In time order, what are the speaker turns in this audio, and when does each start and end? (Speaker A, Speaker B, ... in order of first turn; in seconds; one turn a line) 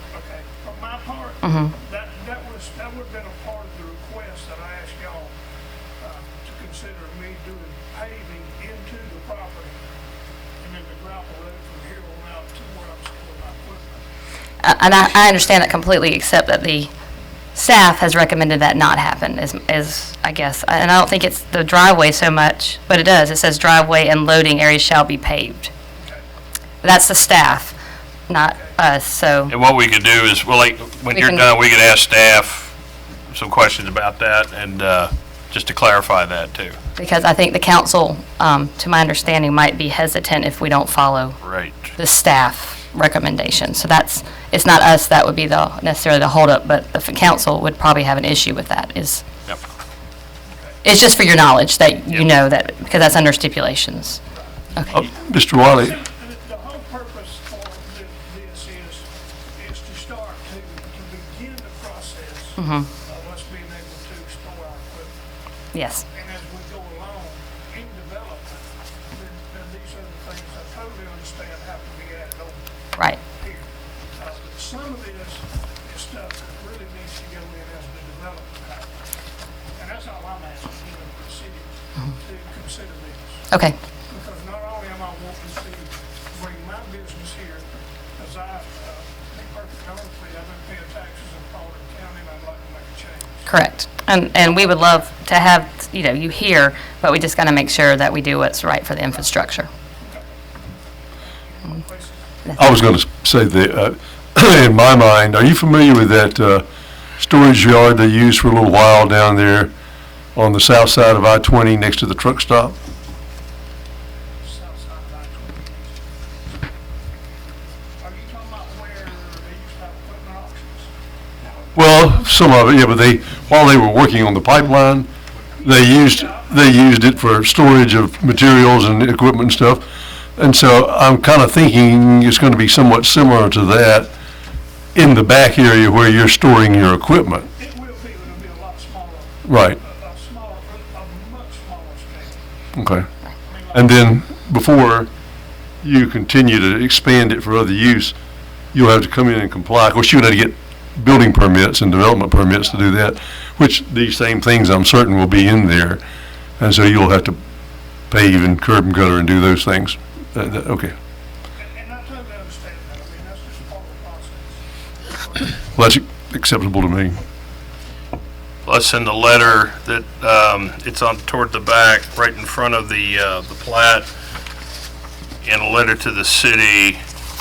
Speaker A: 0.1-5.3
Speaker B: 1.4-1.7
Speaker A: 6.0-9.8
Speaker A: 10.6-14.0
Speaker B: 14.6-16.9
Speaker B: 17.5-25.7
Speaker A: 26.0-26.2
Speaker B: 26.8-27.8
Speaker B: 28.3-29.5
Speaker C: 29.5-32.7
Speaker B: 31.1-31.4
Speaker C: 33.3-36.8
Speaker B: 37.0-49.3
Speaker C: 41.4-41.9
Speaker A: 50.5-50.8
Speaker B: 50.8-54.2
Speaker B: 54.8-55.0
Speaker D: 54.9-55.9
Speaker A: 55.6-65.1
Speaker B: 62.6-62.9
Speaker B: 65.7-66.0
Speaker A: 66.1-72.6
Speaker A: 73.2-78.9
Speaker A: 79.7-83.4
Speaker B: 83.5-83.8
Speaker A: 84.1-93.5
Speaker B: 93.5-99.7
Speaker A: 100.0-100.3
Speaker A: 101.3-102.4
Speaker D: 102.5-106.7
Speaker D: 107.2-109.7
Speaker D: 110.3-112.8
Speaker A: 114.4-116.0
Speaker A: 118.0-120.9
Speaker D: 121.7-125.1
Speaker D: 125.6-129.8
Speaker A: 125.8-126.7
Speaker D: 130.4-134.1
Speaker D: 134.9-137.5
Speaker A: 137.6-142.4
Speaker D: 139.4-139.8
Speaker D: 142.7-143.1
Speaker A: 143.4-143.9
Speaker D: 143.7-145.1
Speaker D: 145.8-148.1
Speaker D: 148.7-156.0
Speaker D: 156.6-157.4
Speaker D: 158.1-160.9
Speaker A: 161.6-165.5
Speaker D: 165.6-167.2
Speaker C: 168.7-174.1
Speaker C: 175.4-177.0